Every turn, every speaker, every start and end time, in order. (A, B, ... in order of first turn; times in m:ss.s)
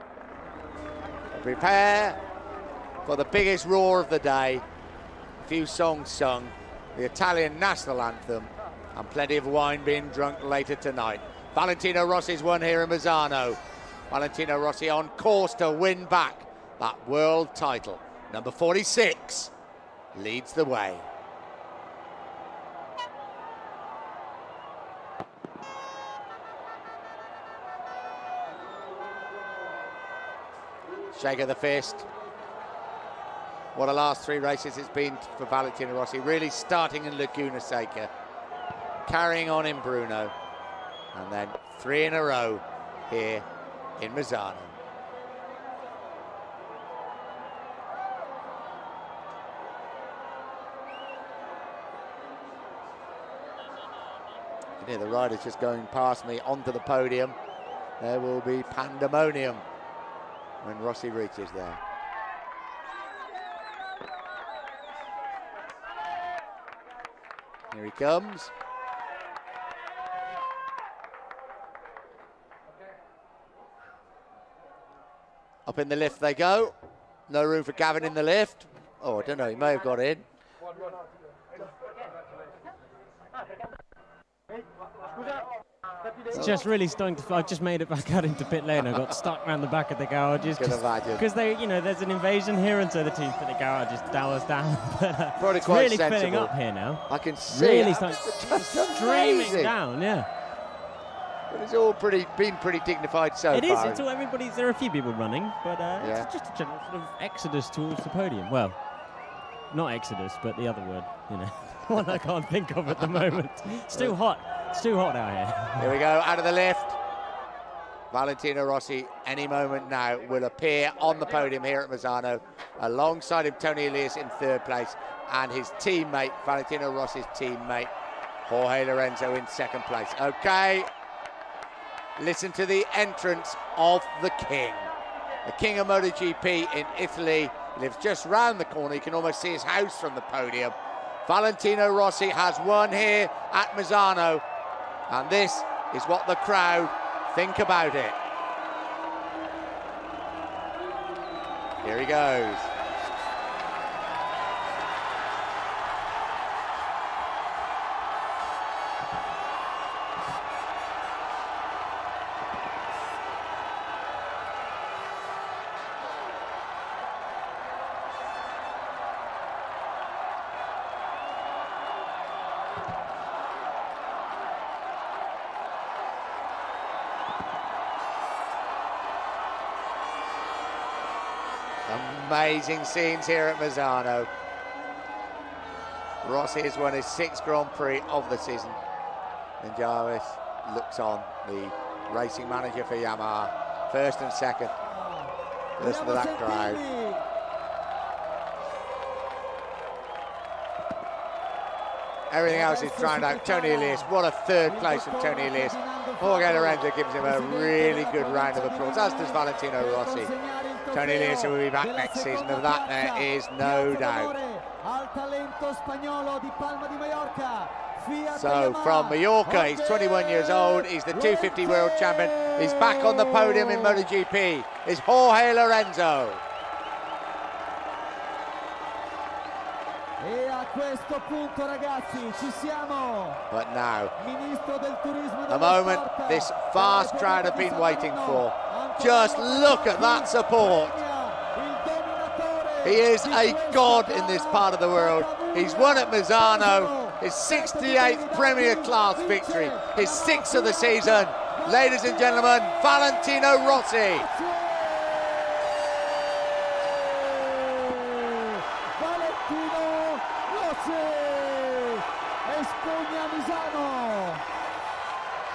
0:01.3-0:02.2 A
0:03.0-0:04.6 A
0:05.4-0:13.6 A
0:14.1-0:19.5 A
0:20.1-0:21.0 A
0:31.1-0:32.0 A
0:33.7-0:38.1 A
0:39.0-0:40.3 A
0:41.1-0:43.4 A
0:44.0-0:44.8 A
0:54.8-0:57.4 A
0:58.0-0:59.6 A
1:00.6-1:01.8 A
1:07.7-1:08.5 A
1:15.6-1:16.7 A
1:17.3-1:20.2 A
1:26.3-1:40.3 B
1:30.5-1:31.2 A
1:35.4-1:36.5 A
1:37.1-1:39.7 A
1:41.5-1:44.0 A
1:43.5-1:48.8 B
1:46.0-1:46.3 A
1:49.7-1:55.9 B
1:55.8-1:57.0 A
1:58.1-2:07.9 A
2:08.4-2:10.9 A
2:12.2-2:14.9 A
2:15.4-2:20.7 A
2:21.2-2:24.4 A
2:25.1-2:28.2 A
2:31.8-2:32.7 A
3:01.9-3:04.3 A
3:06.2-3:08.8 A
3:09.6-3:14.7 A
3:14.8-3:17.2 C
3:15.8-3:16.8 A
3:22.3-3:30.3 A
3:22.4-3:24.1 C
3:24.6-3:44.0 C
3:30.9-3:34.3 A
3:38.3-3:46.4 A
3:50.2-3:53.4 C
3:53.5-3:54.1 A
3:54.2-4:12.5 C
3:55.5-4:01.0 A
4:02.8-4:14.3 A
4:13.6-4:15.6 C
4:16.9-4:24.4 C